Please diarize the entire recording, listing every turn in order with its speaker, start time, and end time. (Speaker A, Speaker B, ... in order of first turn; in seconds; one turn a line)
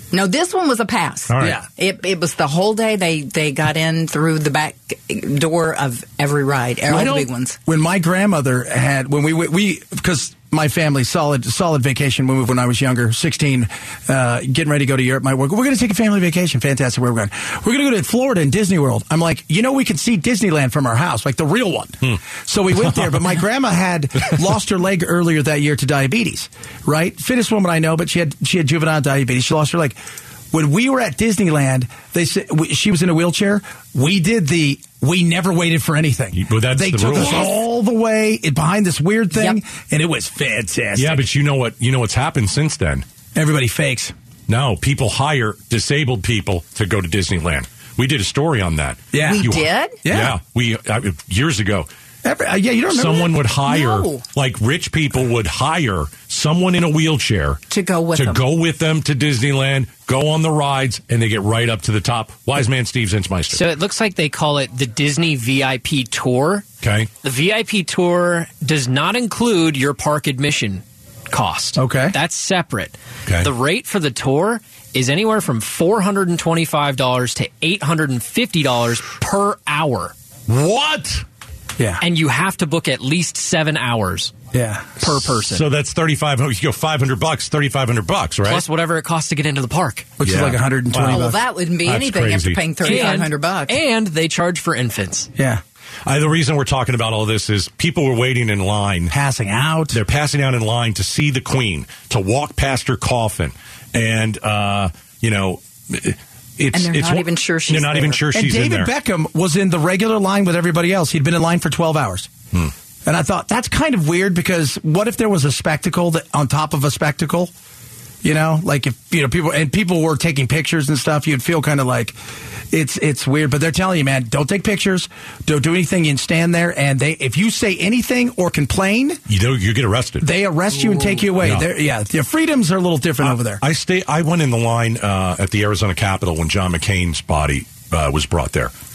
Speaker A: 0.1-7.6
Speaker B: 1.3-1.6
Speaker C: 1.4-1.7
Speaker C: 6.9-30.0
Speaker C: 30.5-41.2
Speaker B: 36.3-37.6
Speaker A: 39.3-39.6
Speaker B: 41.0-43.0
Speaker C: 43.4-44.1
Speaker B: 44.5-51.9
Speaker C: 49.1-49.5
Speaker A: 49.2-50.0
Speaker C: 50.0-50.4
Speaker C: 52.2-53.3
Speaker B: 52.9-57.6
Speaker A: 53.7-54.2
Speaker A: 57.7-58.4
Speaker B: 58.1-63.7
Speaker D: 63.5-66.7
Speaker B: 66.8-67.1
Speaker D: 67.2-80.2
Speaker C: 71.8-72.2
Speaker B: 80.5-81.2
Speaker D: 82.0-84.4
Speaker C: 84.5-85.0
Speaker D: 85.0-85.6
Speaker B: 85.4-88.7
Speaker D: 88.4-90.2
Speaker C: 90.2-91.4
Speaker B: 90.2-92.6
Speaker A: 91.1-93.8
Speaker D: 92.8-95.3
Speaker C: 95.4-95.6
Speaker B: 96.0-99.1
Speaker C: 99.1-100.0
Speaker B: 99.9-108.9
Speaker A: 106.7-108.2
Speaker C: 108.3-112.3
Speaker C: 113.0-117.5
Speaker C: 118.2-122.2
Speaker C: 122.7-129.2
Speaker B: 129.3-130.3
Speaker C: 130.2-133.6
Speaker B: 131.3-131.7
Speaker B: 133.2-138.7